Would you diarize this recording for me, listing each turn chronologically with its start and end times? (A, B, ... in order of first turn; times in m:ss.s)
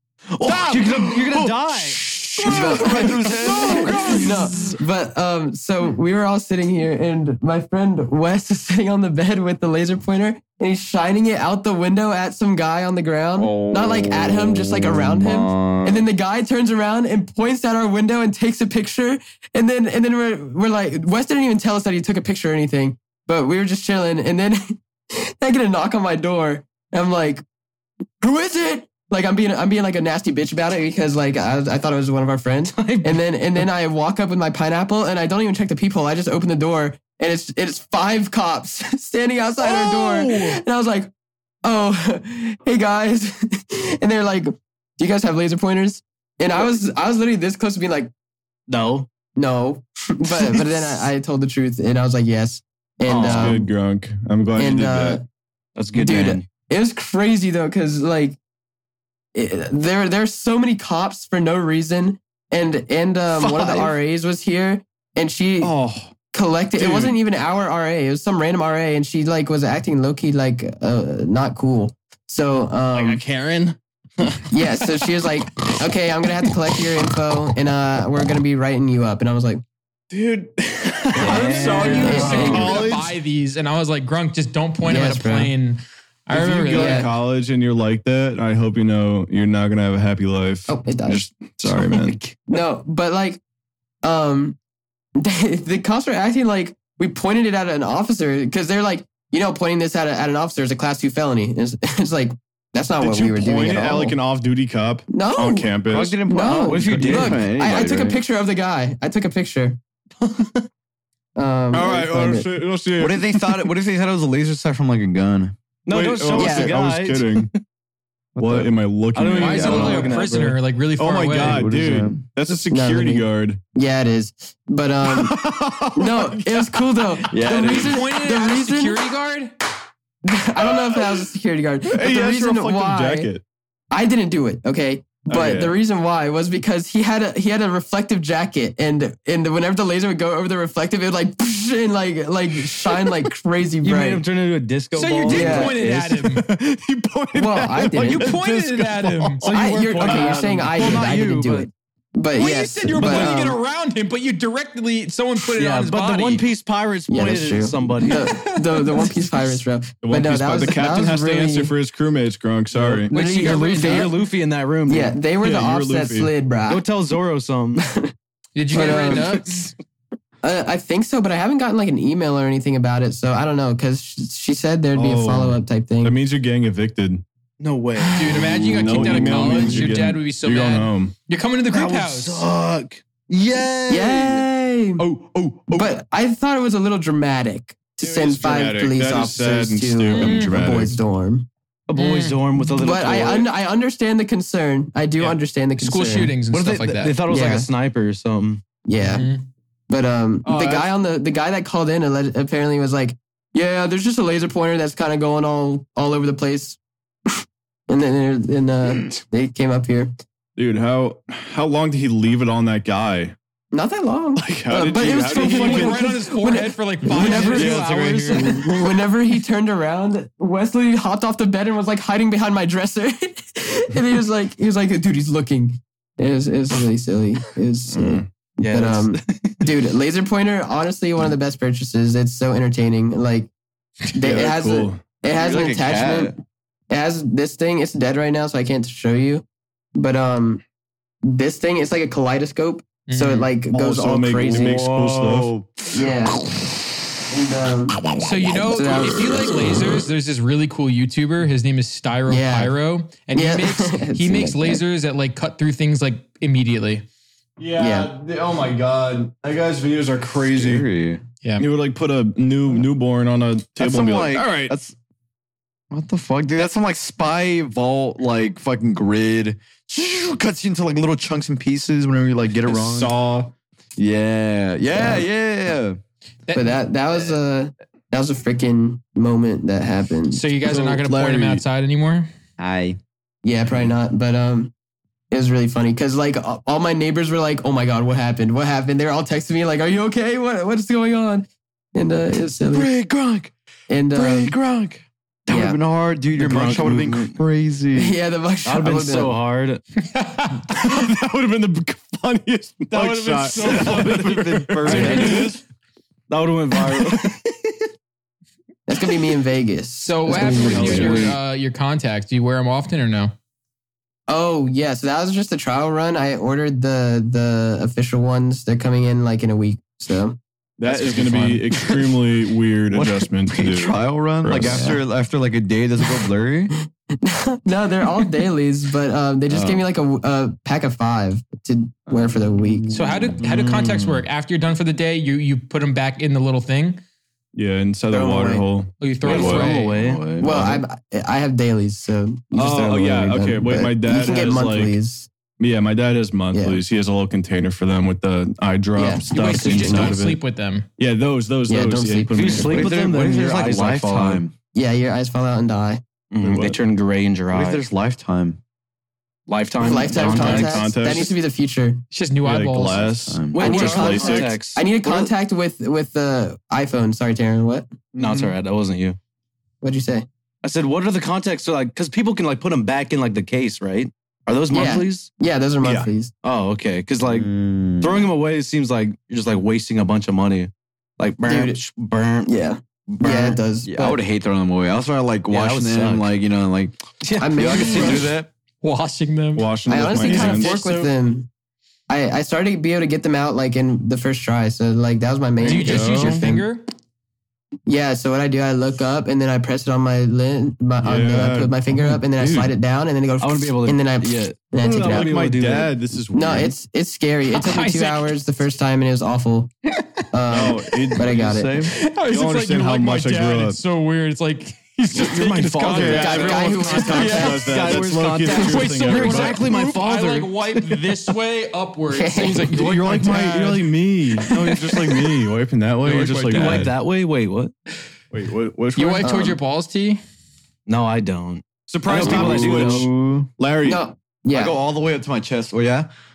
0:00.4-0:04.5 A
0:00.4-0:04.2 B
0:02.4-0:27.4 C
0:03.7-0:04.1 D
0:13.4-0:16.1 A
0:28.2-0:41.1 C
0:32.7-0:33.2 B
0:39.6-0:40.6 B
0:41.6-0:48.1 C
0:48.7-0:49.1 B
0:49.4-0:53.7 C
0:50.4-0:51.0 B
0:53.1-0:53.6 B
0:53.2-0:55.2 D
0:54.6-0:55.2 C
0:55.8-0:56.5 B
0:55.9-0:58.4 C
0:59.3-1:05.7 C
1:03.4-1:03.9 B
1:05.6-1:06.1 D
1:06.3-1:13.2 C
1:06.8-1:07.2 D
1:12.9-1:14.5 D
1:14.5-1:19.6 C
1:20.1-1:23.2 D
1:21.2-1:22.8 B
1:21.2-1:22.8 C
1:21.3-1:27.1 E
1:24.8-1:25.5 C
1:26.3-1:32.2 D
1:26.7-1:27.1 C
1:30.7-1:31.3 C
1:31.7-1:32.4 B
1:32.5-1:33.4 C
1:34.0-1:34.6 C
1:35.2-1:44.2 C
1:43.0-1:46.2 D
1:45.1-1:45.7 C
1:45.9-1:48.2 A
1:46.3-1:49.8 C
1:46.6-1:47.4 B
1:46.8-1:47.3 D
1:50.2-1:50.6 B
1:51.4-1:52.5 C
1:51.7-1:53.6 D
1:53.0-1:55.6 A
1:55.9-1:57.6 B
1:55.9-1:57.5 D
1:56.3-1:56.8 C
1:58.4-1:58.7 A
1:58.4-2:00.1 D
1:59.1-2:00.6 B
1:59.4-2:01.6 E
1:59.5-2:00.1 A
2:01.0-2:03.6 D
2:01.4-2:02.2 A
2:02.5-2:05.4 C
2:05.1-2:07.0 D
2:05.9-2:09.0 C
2:07.2-2:08.0 A
2:07.5-2:09.5 E
2:10.2-2:13.3 C
2:10.6-2:11.2 D
2:11.9-2:13.4 D
2:13.9-2:24.2 C
2:15.3-2:15.8 D
2:22.8-2:23.2 D
2:23.8-2:26.3 B
2:24.9-2:26.4 E
2:25.3-2:25.8 C
2:26.4-2:29.5 D
2:27.3-2:28.2 C
2:28.0-2:30.3 E
2:29.4-2:31.7 B
2:29.5-2:33.6 C
2:32.4-2:36.4 E
2:33.0-2:33.3 B
2:35.6-2:38.4 B
2:37.1-2:41.7 C
2:38.1-2:39.1 E
2:40.0-2:43.1 D
2:42.7-2:45.2 B
2:43.1-2:44.2 C
2:43.1-2:44.2 E
2:44.9-2:46.9 C
2:45.4-2:46.3 D
2:46.7-2:47.8 B
2:47.8-2:48.1 C
2:48.6-2:49.7 E
2:48.7-2:49.4 C
2:48.7-2:49.6 B
2:50.4-2:56.2 C
2:54.9-2:57.2 D
2:57.6-2:59.8 B
2:58.2-3:02.5 E
2:58.2-3:01.1 D
3:01.7-3:04.5 B
3:03.9-3:05.0 C
3:05.0-3:05.8 B
3:05.7-3:11.5 C
3:08.0-3:11.0 D
3:10.1-3:10.5 E
3:11.9-3:13.5 B
3:12.0-3:12.5 E
3:12.8-3:16.3 C
3:15.2-3:17.2 E
3:16.5-3:18.6 B
3:17.3-3:17.7 C
3:18.8-3:19.3 C
3:19.0-3:19.4 E
3:19.9-3:26.8 C
3:20.4-3:20.9 D
3:27.3-3:30.1 C
3:30.6-3:33.4 D
3:33.7-3:37.7 C
3:34.4-3:36.1 D
3:35.3-3:37.8 E
3:37.2-3:38.5 D
3:37.2-3:38.6 B
3:37.5-3:38.4 A
3:38.3-3:53.5 C
3:47.9-3:48.3 D
3:48.6-3:49.7 B
3:54.1-3:56.4 C
3:54.2-3:55.0 D
3:55.3-3:56.3 A
3:56.9-4:00.6 C
4:01.2-4:04.8 C
4:03.1-4:03.5 E
4:03.7-4:05.5 D
4:04.4-4:06.1 A
4:05.9-4:06.4 C
4:07.3-4:09.8 C
4:08.2-4:17.0 E
4:12.3-4:12.8 C
4:13.3-4:14.8 C
4:17.6-4:20.9 D
4:17.8-4:18.1 C
4:20.5-4:21.2 A
4:21.6-4:24.7 D
4:23.8-4:24.9 A
4:25.9-4:33.1 A
4:32.6-4:33.5 D
4:34.0-4:36.0 A
4:34.9-4:35.2 C
4:36.5-4:36.8 E
4:36.5-4:40.4 C
4:40.3-4:42.3 E
4:40.6-4:41.6 D
4:42.6-4:43.0 A
4:43.4-4:44.7 C
4:45.3-4:52.9 C
4:52.7-4:53.5 A
4:53.9-4:54.6 C
4:54.1-4:58.2 A
4:55.5-4:55.8 C
4:56.4-4:57.4 B
4:57.9-4:59.4 C
4:58.6-4:59.8 B
5:00.0-5:00.8 E
5:00.7-5:05.5 D
5:02.9-5:05.6 B
5:03.6-5:05.6 A
5:06.3-5:07.7 B
5:06.7-5:07.4 D
5:08.9-5:11.3 C
5:10.0-5:13.3 E
5:10.3-5:11.4 B
5:10.5-5:11.4 D
5:14.3-5:20.4 C
5:20.8-5:25.0 D
5:20.9-5:22.2 A
5:22.9-5:26.7 A
5:27.2-5:32.9 C
5:29.5-5:29.8 A
5:32.1-5:34.2 A
5:32.9-5:37.0 E
5:37.5-5:39.7 D
5:38.1-5:38.6 C
5:39.0-5:40.0 E
5:39.3-5:40.3 B
5:39.3-5:40.8 A
5:40.4-5:45.3 C
5:42.5-5:44.9 D
5:45.6-5:50.4 D
5:46.5-5:46.8 C
5:49.0-5:50.1 C
5:49.3-5:50.9 E
5:51.0-5:52.9 D
5:51.7-5:52.8 C
5:52.3-5:54.4 B
5:52.7-5:54.5 A
5:54.7-5:56.0 C
5:56.3-5:57.8 B
5:56.4-5:56.8 D
5:57.5-5:58.6 A
5:59.5-6:00.9 B
5:59.8-6:02.0 C
6:00.1-6:01.4 D
6:02.1-6:03.1 E
6:02.4-6:04.6 D
6:02.9-6:04.2 A
6:03.5-6:05.3 B
6:03.6-6:07.9 C
6:08.2-6:09.2 B
6:08.2-6:08.5 D
6:09.8-6:10.3 C
6:10.6-6:15.3 B
6:14.7-6:16.3 C
6:15.8-6:16.1 D
6:16.4-6:17.5 B
6:17.3-6:18.3 A
6:18.0-6:22.6 B
6:21.4-6:21.8 C
6:22.5-6:24.2 C
6:23.1-6:23.6 B
6:23.8-6:28.5 A
6:25.5-6:26.3 B
6:27.2-6:28.3 B
6:27.4-6:28.3 C
6:28.8-6:29.7 E
6:29.6-6:30.8 D
6:29.9-6:31.5 C
6:30.2-6:31.1 B
6:32.1-6:36.6 C
6:35.6-6:36.8 E
6:35.7-6:36.0 B
6:35.7-6:36.4 D
6:37.9-6:45.3 C
6:41.0-6:42.2 D
6:42.4-6:42.7 B
6:43.4-6:45.9 B
6:44.8-6:46.7 D
6:46.3-6:49.7 C
6:47.5-6:48.3 E
6:50.3-6:51.8 C
6:50.5-6:51.4 D
6:51.3-6:51.9 A
6:51.9-6:57.6 E
6:52.3-6:53.8 D
6:55.1-7:01.1 B
6:55.9-6:59.6 D
6:56.1-6:57.8 C
6:58.5-7:03.8 E
7:02.1-7:02.7 C
7:02.7-7:06.9 D
7:06.0-7:06.9 E
7:06.4-7:07.7 B
7:08.3-7:09.4 D
7:09.0-7:10.2 E
7:09.2-7:09.6 C
7:10.9-7:13.1 B
7:11.9-7:14.0 D
7:12.1-7:13.5 A
7:13.8-7:14.8 C
7:14.5-7:16.1 A